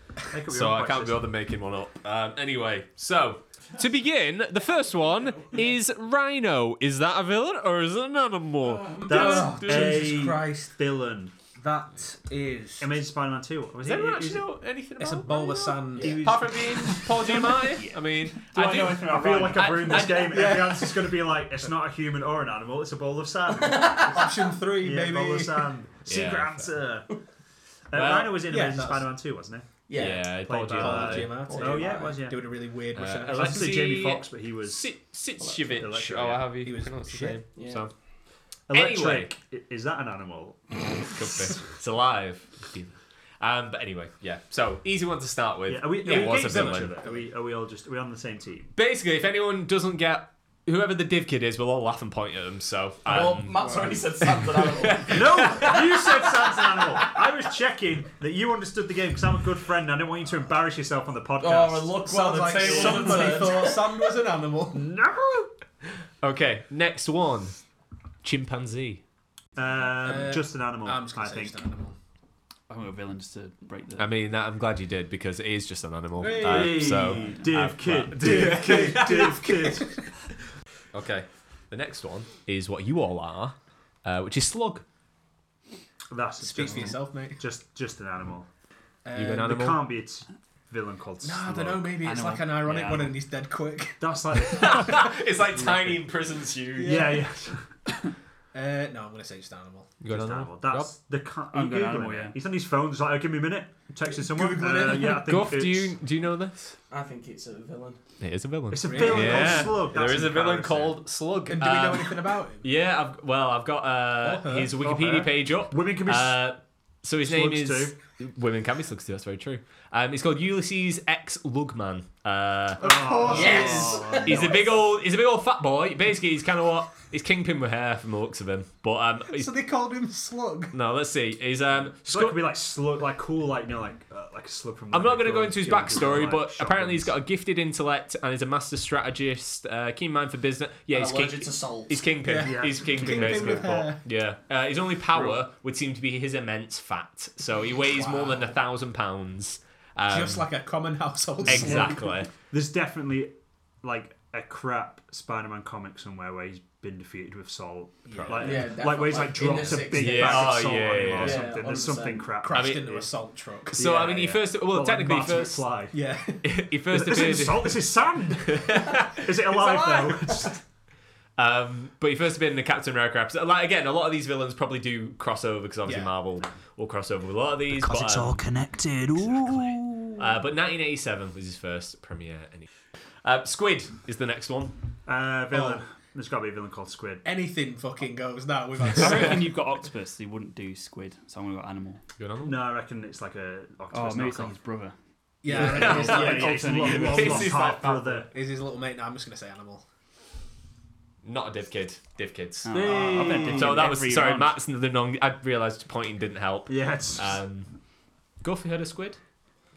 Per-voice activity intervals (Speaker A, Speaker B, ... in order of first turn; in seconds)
Speaker A: 0.3-1.3, 9.0-11.3, 12.8-14.5, 16.0-16.6, 19.0-27.1, 27.9-32.5, 33.3-35.0, 35.7-36.6, 38.7-41.1, 45.7-48.7, 55.1-63.5, 64.7-65.5, 69.6-71.6, 76.4-79.9, 86.1-88.5, 89.4-91.9, 94.0-95.0, 96.8-97.7, 100.1-106.0, 108.7-111.0, 114.8-116.5, 117.2-118.0, 122.8-124.9, 132.0-137.2, 142.3-143.8, 145.1-145.4, 151.5-151.9, 152.5-163.1, 163.7-166.0, 166.9-170.6, 177.8-180.1, 185.1-187.3, 192.4-194.6, 195.5-198.3, 202.7-203.9, 206.7-207.4
Speaker B: 0.5-10.1, 13.8-20.5, 26.1-26.7, 27.9-28.5, 29.9-31.8, 33.0-37.9, 38.7-39.4, 41.1-47.0, 48.8-57.2, 65.8-67.6, 68.2-69.0, 74.0-79.8, 80.9-84.9, 89.2-89.8, 94.5-97.2, 100.0-101.0, 105.1-106.8, 108.2-129.5, 130.7-132.5, 134.9-150.5, 151.4-152.3, 158.2-158.6, 159.9-161.5, 162.5-163.0, 163.8-165.9, 166.4-167.9, 168.5-169.9, 171.4-178.5, 179.3-182.7, 183.2-184.8, 192.2-192.7, 195.5-198.3, 201.2-207.7, 208.4-209.2
Speaker C: 9.0-10.8, 11.6-12.9, 15.0-16.5, 20.1-21.3, 24.1-25.7, 28.5-29.1, 30.8-34.0, 36.6-37.4, 46.0-47.2, 53.6-53.9, 62.1-64.9, 70.0-72.0, 76.2-77.3, 78.2-80.0, 86.4-87.4, 89.0-89.6, 91.2-96.0, 96.8-97.2, 98.5-99.9, 104.1-105.2, 108.8-109.8, 111.5-112.7, 114.2-114.8, 122.8-124.2, 129.3-130.7, 142.2-144.0, 147.9-148.6, 150.1-152.2, 158.1-158.8, 159.5-159.8, 162.4-164.1, 165.9-166.7, 175.8-176.2, 185.5-185.8, 187.2-189.5, 195.4-197.0, 198.3-199.8
Speaker D: 17.3-20.1, 72.7-74.1, 92.0-93.2, 101.5-102.4, 189.0-192.0, 193.9-194.9, 195.5-197.5, 202.7-204.6
Speaker E: 23.5-24.4, 29.9-30.3, 31.5-32.2, 37.6-37.8, 53.1-55.2, 61.4-64.1, 106.9-108.0, 123.3-124.3, 140.9-142.1, 158.4-160.5, 161.2-162.3, 169.5-170.5